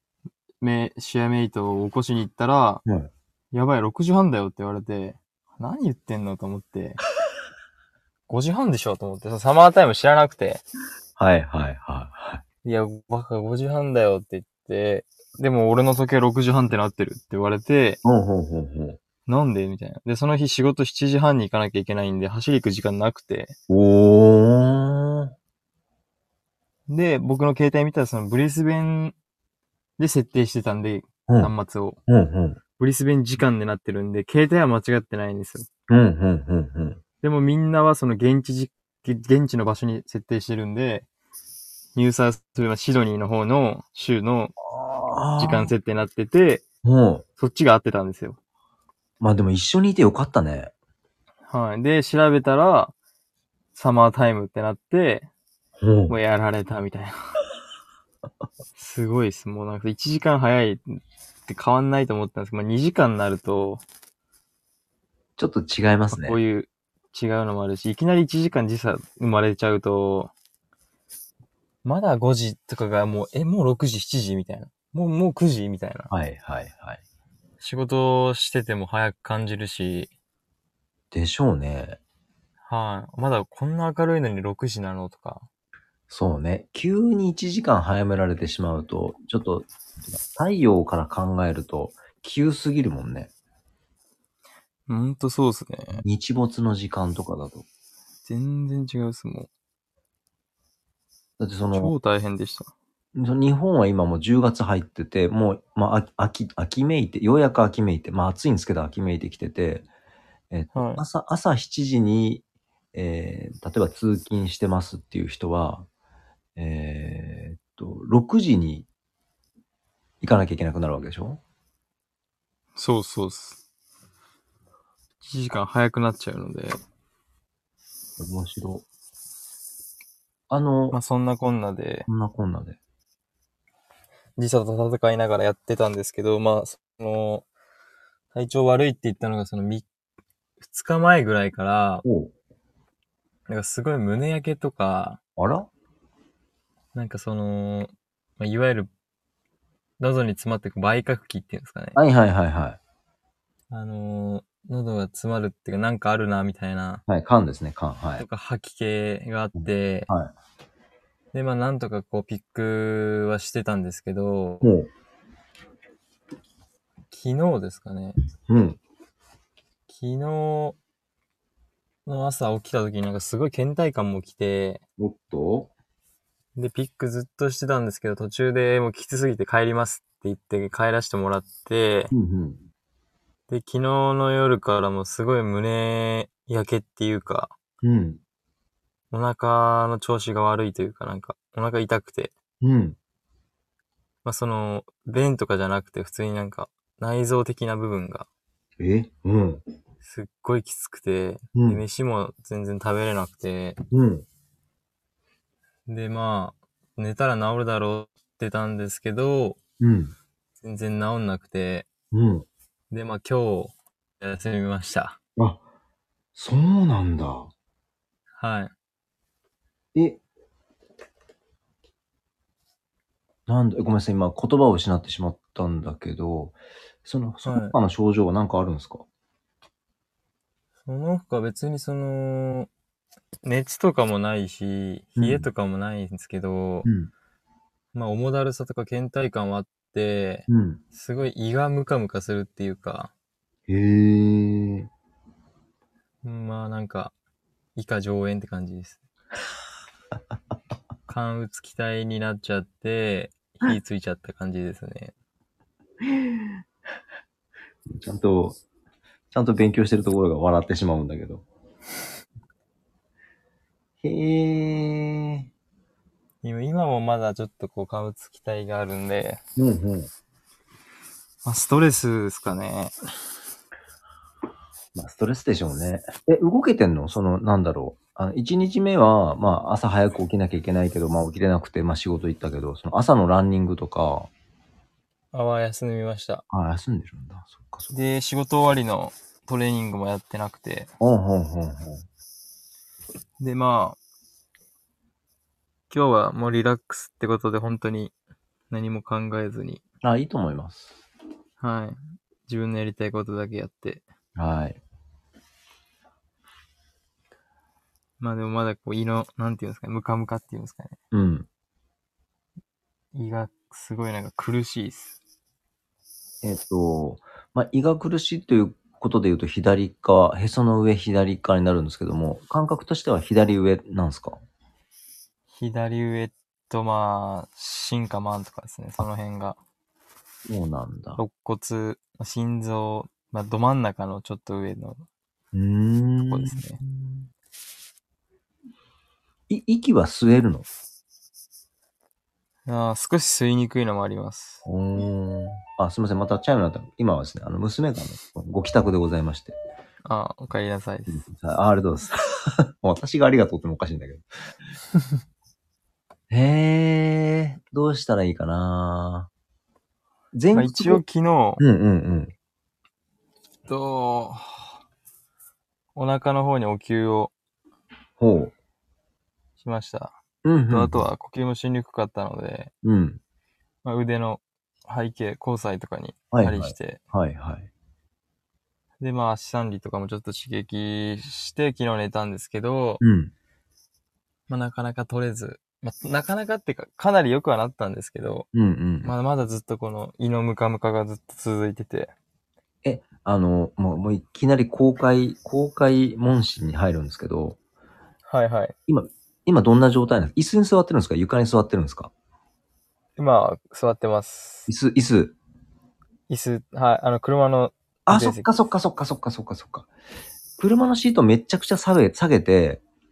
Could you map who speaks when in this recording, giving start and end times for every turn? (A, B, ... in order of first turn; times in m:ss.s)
0:00.6-0:02.8 A
0:03.5-0:07.0 A
0:08.3-0:10.6 A
0:11.2-0:12.4 B
0:12.6-0:18.0 A
0:18.0-0:19.0 B
0:19.3-0:23.6 A
0:23.7-0:25.3 B
0:26.9-0:29.1 A
0:30.0-0:32.0 A
0:31.3-0:31.5 B
0:32.1-0:32.6 B
0:32.8-0:35.7 A
0:35.9-0:37.0 B
0:37.2-0:41.1 A
0:41.9-0:44.6 A
0:44.6-0:45.7 B
0:45.4-0:46.6 A
0:46.8-0:47.2 B
0:47.4-0:48.4 A
0:49.2-0:50.7 B
0:51.5-0:52.9 A
0:53.7-0:55.3 A
0:55.8-0:56.2 B
0:56.1-0:57.3 A
0:58.8-1:03.8 A
1:05.4-1:06.4 B
1:06.1-1:10.3 A
1:11.8-1:16.1 A
1:16.1-1:17.0 B
1:17.6-1:20.1 A
1:21.1-1:22.0 B
1:22.7-1:25.4 A
1:26.1-1:33.3 B
1:34.9-1:36.0 A
1:36.0-1:37.6 B
1:38.2-1:39.5 A
1:41.4-1:41.9 B
1:41.7-1:42.7 A
1:43.1-1:49.8 B
1:50.5-1:52.4 B
1:50.7-1:51.0 A
1:52.9-1:55.9 B
1:56.6-1:58.9 B
2:00.2-2:01.4 B
2:02.8-2:03.6 A
2:05.2-2:06.8 A
2:08.2-2:08.8 B
2:10.5-2:11.0 B
2:10.9-2:12.1 A
2:12.1-2:12.8 B
2:14.4-2:17.4 A
2:18.3-2:19.8 A
2:20.6-2:22.0 A
2:22.0-2:22.3 B
2:23.5-2:25.2 A
2:25.4-2:25.7 B
2:26.9-2:28.9 A
2:30.0-2:32.0 A
2:32.0-2:32.8 B
2:33.7-2:37.0 A
2:37.1-2:38.2 B
2:38.2-2:40.1 A
2:39.6-2:40.3 B
2:41.3-2:44.7 A
2:44.6-2:44.9 B
2:47.1-2:48.2 A
2:48.5-2:48.8 B
2:49.9-2:50.8 A
2:52.0-2:54.8 A
2:55.0-2:55.7 B
2:56.6-3:02.1 A
3:02.1-3:02.6 B
3:03.5-3:07.5 A
3:07.8-3:08.2 B
3:09.1-3:12.3 A
3:12.6-3:13.0 B
3:14.2-3:18.3 A
3:18.8-3:19.6 B
3:20.0-3:23.8 A
3:21.5-3:21.8 B
3:23.9-3:24.2 B
3:25.9-3:29.6 A
3:29.8-3:30.1 B
3:30.6-3:31.9 A
3:32.1-3:32.4 B
3:32.9-3:35.2 A
3:36.3-3:37.5 B
3:38.4-3:38.7 A
3:39.9-3:40.2 B
3:43.5-3:49.0 B
3:47.4-3:47.8 A
3:50.8-3:52.7 A
3:53.4-3:56.9 A
3:55.2-3:55.5 B
3:56.8-3:57.1 B
3:57.9-4:03.1 A
4:00.5-4:00.8 B
4:03.7-4:04.9 B
4:06.2-4:07.1 A
4:07.8-4:09.0 A
4:11.1-4:15.1 A
4:17.9-4:18.6 B
4:19.3-4:21.4 B
4:24.0-4:25.5 B
4:26.4-4:29.4 A
4:29.6-4:30.1 B
4:31.4-4:32.9 A
4:34.9-4:44.3 B
4:45.3-4:46.4 A
4:46.5-4:47.9 B
4:47.9-4:50.9 A
4:51.0-4:52.0 B
4:53.4-4:54.0 A
4:55.9-4:58.1 A
4:58.7-4:59.8 A
5:00.0-5:01.0 B
5:01.6-5:04.0 A
5:04.4-5:04.8 B
5:08.2-5:11.0 A
5:11.1-5:11.5 B
5:13.1-5:15.2 A
5:16.4-5:24.4 B
5:25.5-5:29.6 A
5:30.5-5:31.2 B
5:31.2-5:35.0 A
5:35.5-5:37.3 B
5:36.2-5:36.8 A
5:39.5-5:40.7 B
5:42.6-5:44.6 A
5:44.6-5:49.5 B
5:50.0-5:51.2 A
5:51.1-5:54.2 B
5:56.3-5:59.3 B
6:00.3-6:01.0 B
6:00.5-6:01.6 A
6:01.6-6:02.3 B
6:03.7-6:04.7 A
6:05.9-6:07.3 A
6:08.2-6:08.5 B
6:09.6-6:10.1 A
6:10.4-6:11.0 B
6:10.7-6:12.7 A
6:12.8-6:13.2 B
6:13.8-6:17.0 A
6:16.3-6:17.7 B
6:19.0-6:23.0 A
6:23.0-6:23.3 B
6:24.5-6:28.5 A
6:28.5-6:29.1 B
6:29.0-6:32.1 A
6:32.8-6:37.6 B
6:38.3-6:38.7 A
6:38.9-6:42.1 B
6:43.2-6:44.7 A
6:44.7-6:45.4 B
6:46.3-6:48.5 A
6:48.1-6:49.9 B
6:50.6-6:52.8 B